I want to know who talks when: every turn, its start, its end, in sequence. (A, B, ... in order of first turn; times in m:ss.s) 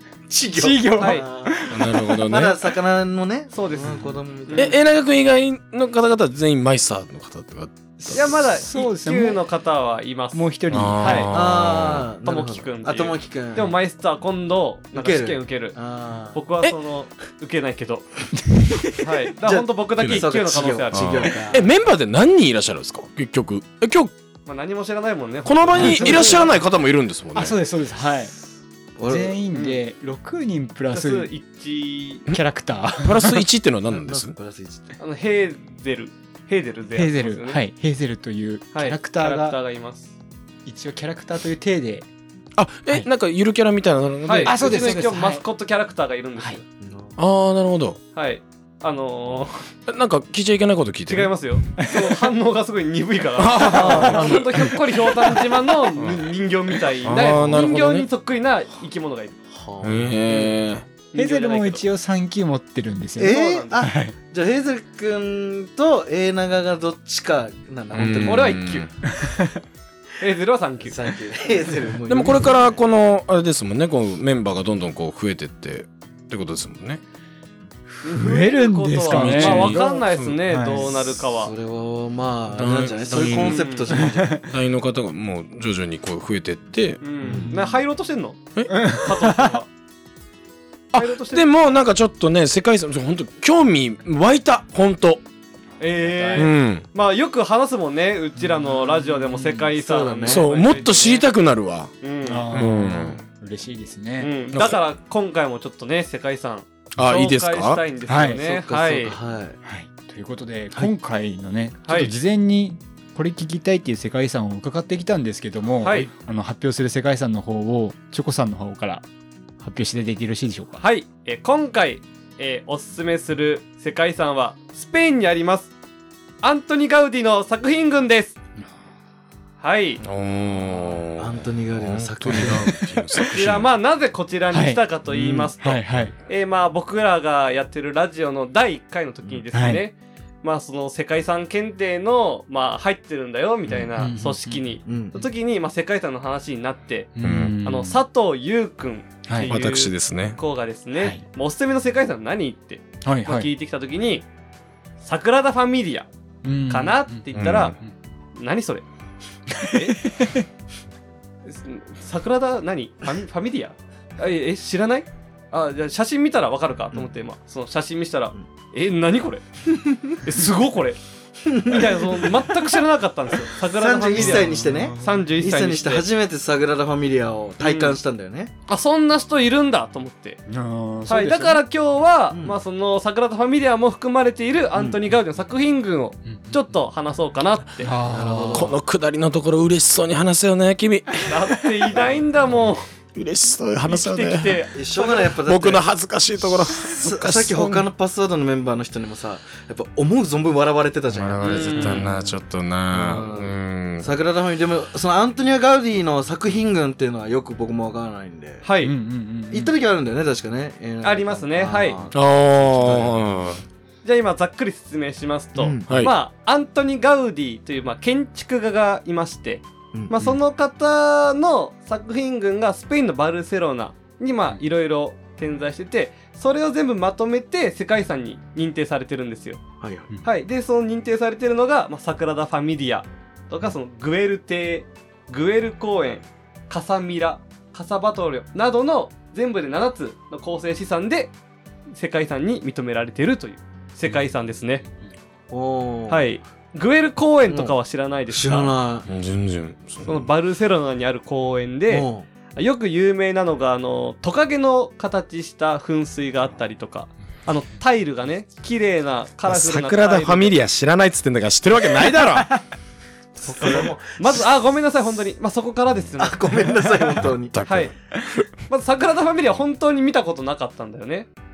0:00.3-0:01.7 A
0:00.5-0:02.3 B
0:01.0-0:01.2 C
0:01.7-0:02.6 D
0:02.2-0:04.8 A
0:03.5-0:04.8 C
0:03.8-0:04.1 B
0:04.5-0:08.4 D
0:08.0-0:09.4 B
0:08.1-0:10.4 C
0:10.3-0:11.3 B
0:10.7-0:12.0 D
0:11.0-0:11.3 C
0:11.3-0:13.7 A
0:12.2-0:15.8 C
0:14.9-0:16.4 A
0:16.3-0:18.1 C
0:18.5-0:19.1 B
0:19.0-0:21.2 C
0:19.4-0:21.6 A
0:20.0-0:20.2 D
0:20.9-0:24.1 D
0:24.4-0:26.4 C
0:25.4-0:27.6 D
0:25.8-0:26.4 B
0:25.8-0:26.5 A
0:27.3-0:28.4 B
0:29.0-0:29.4 A
0:29.0-0:31.3 B
0:29.5-0:29.8 C
0:30.9-0:32.3 C
0:32.3-0:33.4 B
0:33.0-0:34.3 D
0:33.9-0:34.9 A
0:35.0-0:37.6 C
0:36.9-0:39.6 B
0:38.7-0:40.1 C
0:40.6-0:42.1 B
0:42.6-0:45.0 D
0:44.2-0:46.6 C
0:44.4-0:45.4 B
0:46.8-0:47.2 A
0:47.2-0:48.0 D
0:48.1-0:49.6 C
0:49.8-0:51.3 D
0:51.1-0:59.4 C
0:51.8-0:52.1 B
0:53.4-0:54.7 D
0:53.7-0:54.4 A
0:56.0-0:56.2 D
0:57.0-0:58.1 D
0:59.5-1:00.1 A
0:59.8-1:00.8 D
1:01.1-1:01.8 C
1:01.1-1:04.1 B
1:03.2-1:08.8 A
1:03.2-1:03.8 C
1:07.9-1:08.9 D
1:08.2-1:08.9 C
1:09.0-1:09.6 B
1:10.2-1:11.0 C
1:10.8-1:12.8 A
1:12.1-1:17.0 D
1:18.0-1:20.9 B
1:18.0-1:21.5 C
1:19.0-1:20.4 D
1:20.8-1:24.5 A
1:22.5-1:23.7 D
1:23.4-1:23.8 C
1:24.0-1:24.4 B
1:24.4-1:27.0 D
1:27.0-1:29.7 C
1:27.2-1:27.5 A
1:27.2-1:27.8 B
1:28.7-1:29.5 B
1:30.9-1:35.2 D
1:30.9-1:31.7 C
1:35.8-1:41.2 C
1:36.0-1:36.5 A
1:36.4-1:36.8 D
1:38.4-1:38.8 B
1:39.2-1:40.4 A
1:40.3-1:41.9 D
1:42.0-1:42.5 C
1:42.2-1:44.3 B
1:42.5-1:43.2 D
1:44.2-1:49.2 C
1:44.5-1:44.8 D
1:47.0-1:47.8 D
1:48.1-1:48.4 B
1:48.4-1:49.6 A
1:49.6-1:59.0 B
1:51.8-1:52.1 C
1:55.8-1:56.1 C
1:59.6-2:00.8 B
2:00.8-2:05.7 C
2:06.4-2:08.4 C
2:09.6-2:10.0 C
2:10.0-2:13.7 D
2:11.2-2:12.8 A
2:12.3-2:13.3 B
2:13.3-2:27.1 C
2:14.5-2:16.1 B
2:19.5-2:19.8 B
2:23.9-2:24.6 B
2:24.8-2:25.3 A
2:27.1-2:28.0 B
2:27.2-2:27.6 D
2:27.6-2:34.3 C
2:29.2-2:29.5 B
2:29.5-2:30.4 D
2:31.0-2:31.2 B
2:33.0-2:33.5 B
2:35.0-2:36.1 C
2:36.4-2:37.3 B
2:36.7-2:37.8 C
2:37.3-2:37.7 D
2:38.3-2:38.8 C
2:39.5-2:40.4 B
2:39.7-2:40.0 C
2:41.4-2:49.4 C
2:50.1-2:51.0 C
2:51.4-2:52.4 A
2:51.6-2:56.1 C
2:53.6-2:58.5 A
2:54.1-2:55.3 B
2:57.6-2:58.0 C
2:58.7-3:00.4 C
3:00.5-3:01.6 B
3:01.1-3:07.9 C
3:02.3-3:02.6 A
3:06.2-3:06.6 B
3:07.8-3:08.7 B
3:08.0-3:08.7 A
3:08.5-3:11.2 D
3:11.2-3:12.8 C
3:13.1-3:14.6 D
3:13.9-3:15.2 C
3:14.7-3:15.8 A
3:15.4-3:17.8 D
3:16.4-3:22.3 A
3:21.1-3:24.2 D
3:21.4-3:22.1 C
3:22.9-3:28.6 A
3:28.6-3:28.9 C
3:28.8-3:29.7 B
3:29.5-3:33.4 A
3:31.0-3:32.0 C
3:32.1-3:33.6 D
3:34.0-3:49.6 C
3:35.6-3:35.9 A
3:35.9-3:36.1 D
3:39.9-3:40.4 A
3:49.8-3:50.1 A
3:50.2-4:01.3 C
4:01.9-4:04.8 C
4:05.5-4:06.3 A
4:06.1-4:08.7 C
4:07.5-4:07.8 A
4:08.3-4:09.1 A
4:09.1-4:10.3 D
4:10.0-4:20.6 C
4:11.9-4:12.3 A
4:19.5-4:22.6 D
4:23.4-4:24.0 A
4:23.4-4:26.4 C
4:26.2-4:27.5 A
4:27.5-4:28.4 D
4:27.6-4:27.9 C
4:28.7-4:31.3 C